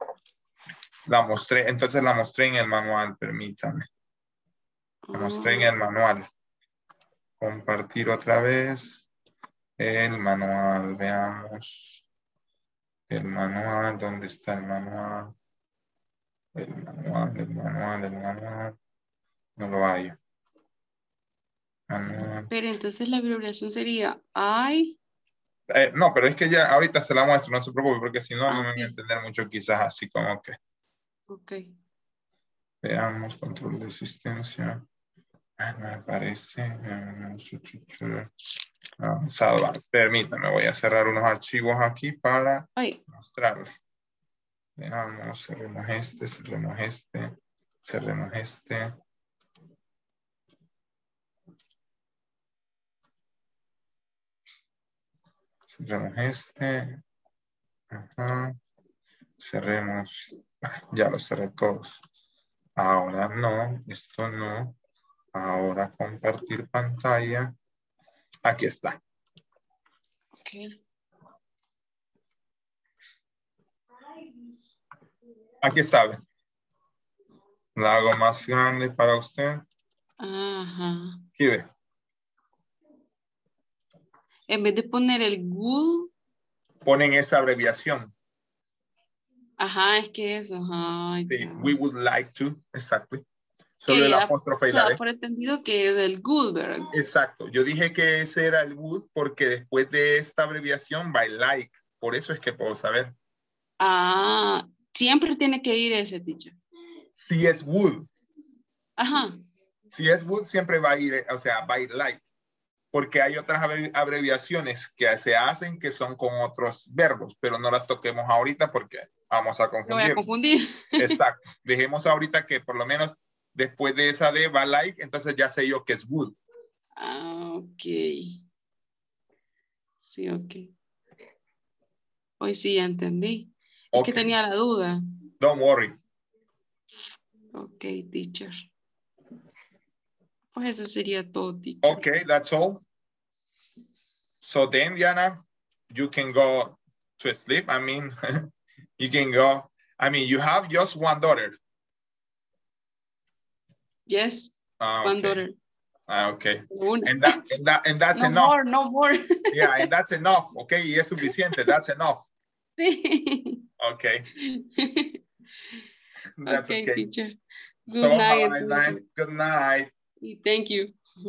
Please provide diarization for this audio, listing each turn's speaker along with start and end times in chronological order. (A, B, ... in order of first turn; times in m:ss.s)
0:01.1-0:03.9 A
0:05.1-0:05.7 B
0:05.1-0:06.3 A
0:07.4-0:09.1 A
0:09.8-0:12.0 A
0:13.1-0:15.3 A
0:16.6-0:18.8 A
0:19.6-0:20.2 A
0:21.9-0:22.5 A
0:22.5-0:25.0 B
0:25.7-0:30.6 A
0:28.5-0:29.0 B
0:31.3-0:31.7 B
0:32.8-0:34.8 A
0:35.6-0:38.3 A
0:39.0-0:43.7 A
0:44.8-0:48.9 A
0:55.7-0:57.0 A
0:57.9-0:58.6 A
0:59.4-1:02.0 A
1:02.8-1:04.8 A
1:05.3-1:07.6 A
1:08.4-1:09.0 A
1:10.4-1:10.8 B
1:15.6-1:16.2 A
1:17.8-1:19.6 A
1:20.2-1:21.2 B
1:21.4-1:21.7 A
1:24.5-1:26.1 B
1:26.8-1:28.1 A
1:29.6-1:31.8 B
1:31.3-1:33.2 A
1:33.8-1:35.0 A
1:33.9-1:36.9 B
1:36.9-1:43.2 A
1:43.8-1:46.6 B
1:47.2-1:48.1 A
1:49.0-1:49.4 B
1:49.9-1:52.2 A
1:52.9-2:00.2 A
1:59.9-2:01.2 B
2:01.0-2:06.4 A
2:07.0-2:08.4 B
2:10.0-2:10.7 B
2:12.4-2:15.0 B
2:13.9-2:14.4 A
2:15.4-2:16.0 A
2:17.6-2:18.5 B
2:20.5-2:22.0 B
2:21.8-2:22.8 A
2:24.4-2:28.5 A
2:29.0-2:31.6 A
2:34.1-2:35.6 B
2:34.8-2:35.4 A
2:36.1-2:38.6 A
2:36.7-2:37.5 B
2:38.2-2:39.9 B
2:39.5-2:42.3 A
2:41.2-2:41.7 B
2:42.8-2:43.6 B
2:43.8-2:44.3 A
2:44.4-2:45.2 B
2:46.4-2:47.1 A
2:46.5-2:49.0 B
2:47.9-2:49.9 A
2:50.2-2:50.9 B